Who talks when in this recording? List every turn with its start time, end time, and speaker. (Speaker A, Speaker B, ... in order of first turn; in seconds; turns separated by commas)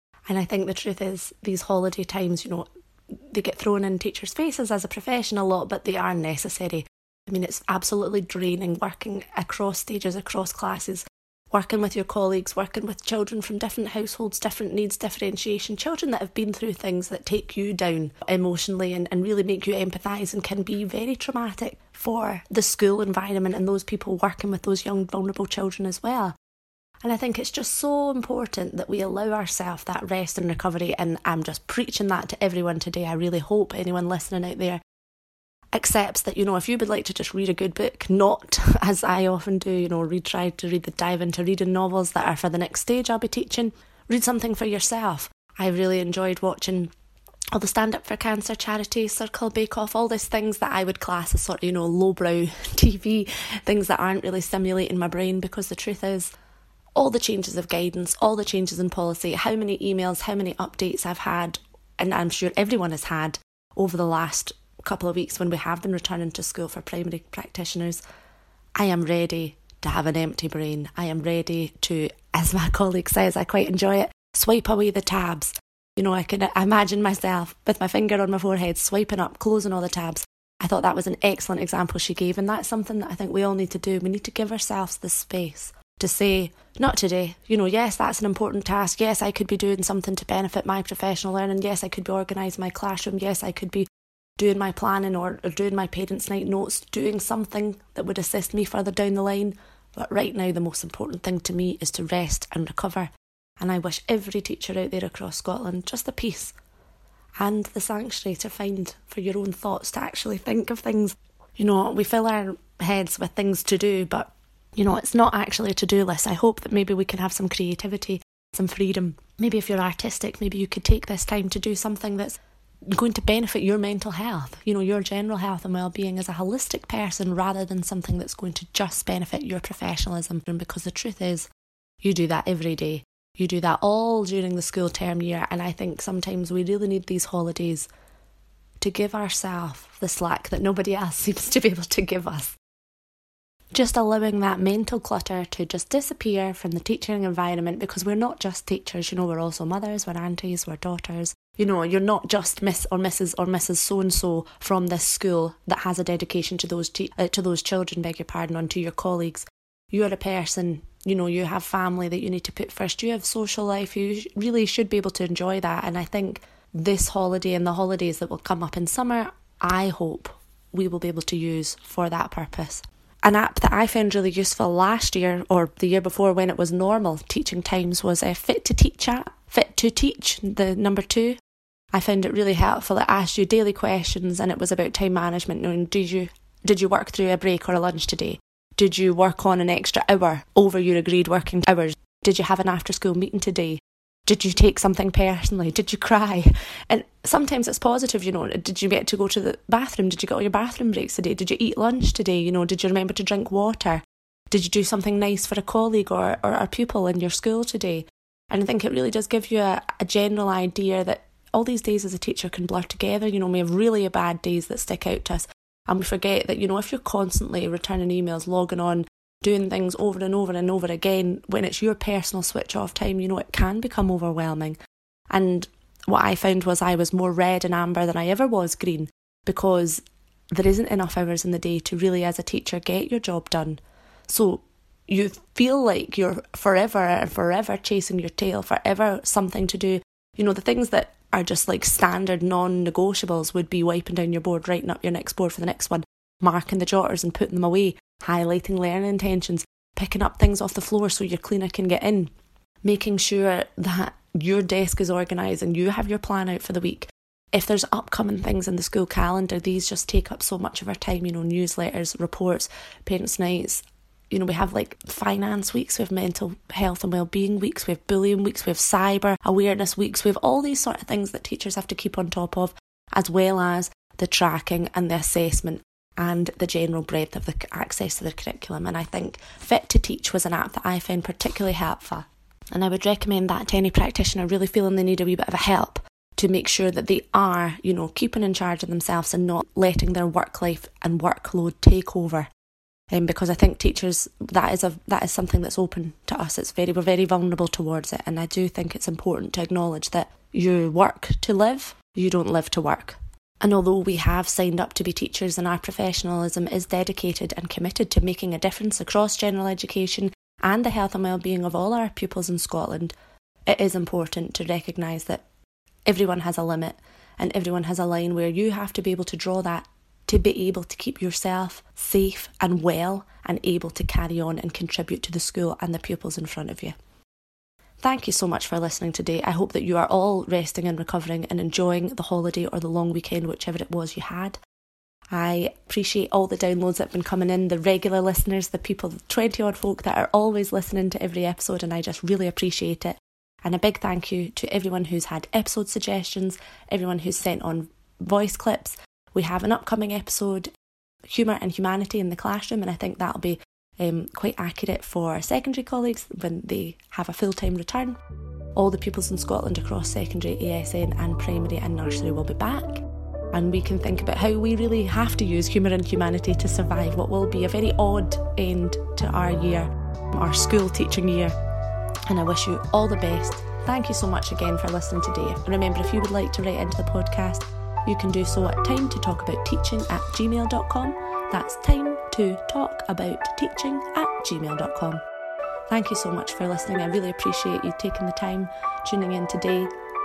Speaker A: 0.3-26.3, Speaker A: 27.0-34.8, Speaker A: 35.7-46.9, Speaker A: 47.5-56.3, Speaker A: 57.0-68.0, Speaker A: 68.8-93.8, Speaker A: 94.4-106.5, Speaker A: 107.4-131.5, Speaker A: 132.0-137.9, Speaker A: 138.8-142.6, Speaker A: 143.7-181.4, Speaker A: 181.9-224.8, Speaker A: 225.3-252.3, Speaker A: 252.8-292.5, Speaker A: 293.1-313.1, Speaker A: 313.7-315.4, Speaker A: 316.1-326.9, Speaker A: 328.0-334.6, Speaker A: 335.3-350.7, Speaker A: 351.2-358.2, Speaker A: 358.8-371.5, Speaker A: 372.3-385.2, Speaker A: 385.9-389.9